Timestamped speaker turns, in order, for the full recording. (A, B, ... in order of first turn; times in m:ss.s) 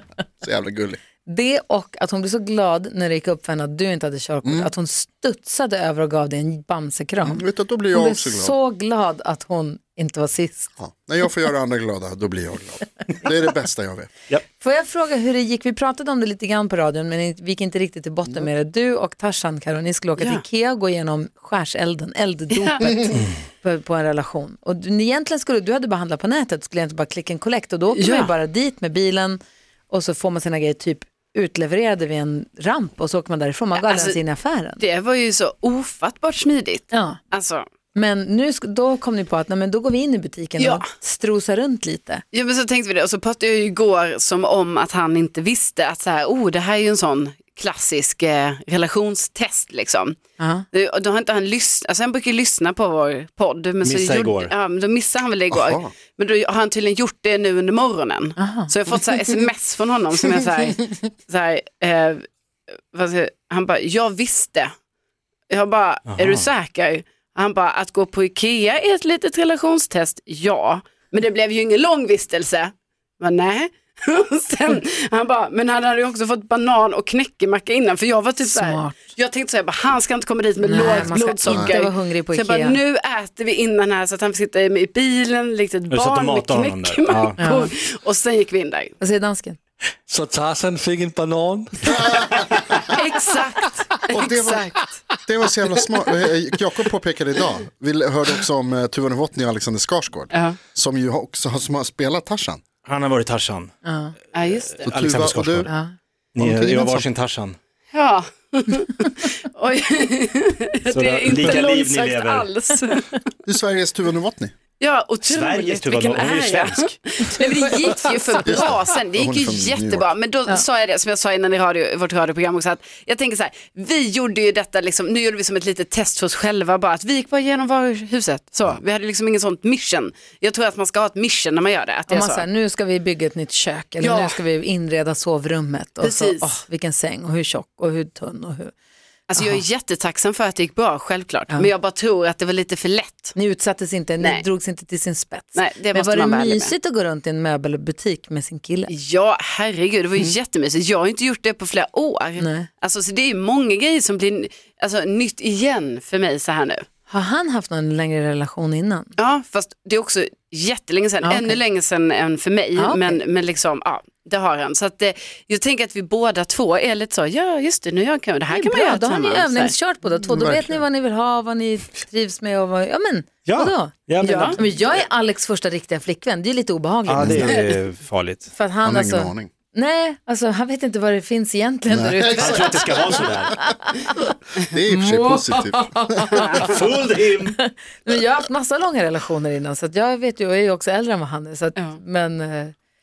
0:00.4-0:01.0 A
0:01.2-0:10.7 B
0:04.4-0:04.7 A
0:07.2-0:08.6 A
0:10.8-0:14.1 A
0:14.6-0:34.8 B
0:22.5-0:22.8 C
0:27.9-0:28.3 C
0:33.7-0:34.2 C
0:34.8-0:37.6 C
0:36.9-0:37.2 B
0:37.9-0:42.2 B
0:40.6-0:40.8 C
0:42.3-0:50.2 C
0:50.4-0:50.7 B
0:50.7-1:02.2 C
0:53.8-0:54.5 D
0:55.5-0:55.9 A
0:58.4-0:58.7 B
1:02.9-1:04.7 C
1:05.5-1:28.9 C
1:06.1-1:06.5 D
1:18.4-1:19.0 B
1:20.6-1:22.8 B
1:21.4-1:21.7 A
1:25.9-1:27.4 D
1:27.4-1:27.7 B
1:29.0-1:29.6 B
1:30.1-1:32.0 E
1:31.8-1:32.8 A
1:32.8-1:34.9 C
1:34.1-1:34.7 A
1:35.2-1:42.6 A
1:42.8-1:43.7 D
1:43.8-1:44.1 B
1:44.3-1:44.9 C
1:44.7-1:45.7 D
1:44.8-1:45.7 A
1:45.6-1:45.9 B
1:46.4-1:47.6 D
1:46.4-1:47.0 A
1:47.9-1:53.1 C
1:50.9-1:52.5 D
1:53.4-1:54.5 A
1:54.8-2:12.4 C
1:55.2-1:57.0 D
1:57.3-1:58.6 B
1:58.4-2:00.1 A
2:12.1-2:18.7 B
2:14.0-2:14.4 C
2:16.0-2:16.5 C
2:19.3-2:23.3 C
2:19.4-2:19.6 B
2:23.3-2:28.9 B
2:25.5-2:26.7 C
2:28.9-2:36.8 C
2:32.4-2:32.7 B
2:37.1-2:39.1 B
2:39.2-2:49.7 C
2:41.2-2:41.6 B
2:42.8-2:43.2 B
2:48.5-2:57.6 B
2:50.2-2:50.8 A
2:53.4-2:54.6 D
2:54.2-2:54.6 C
2:57.0-2:58.5 D
2:57.2-2:57.6 A
2:58.5-3:04.3 B
2:58.8-2:59.5 A
3:01.9-3:02.8 A
3:02.4-3:03.6 D
3:04.6-3:06.6 A
3:04.9-3:12.7 B
3:06.6-3:07.6 D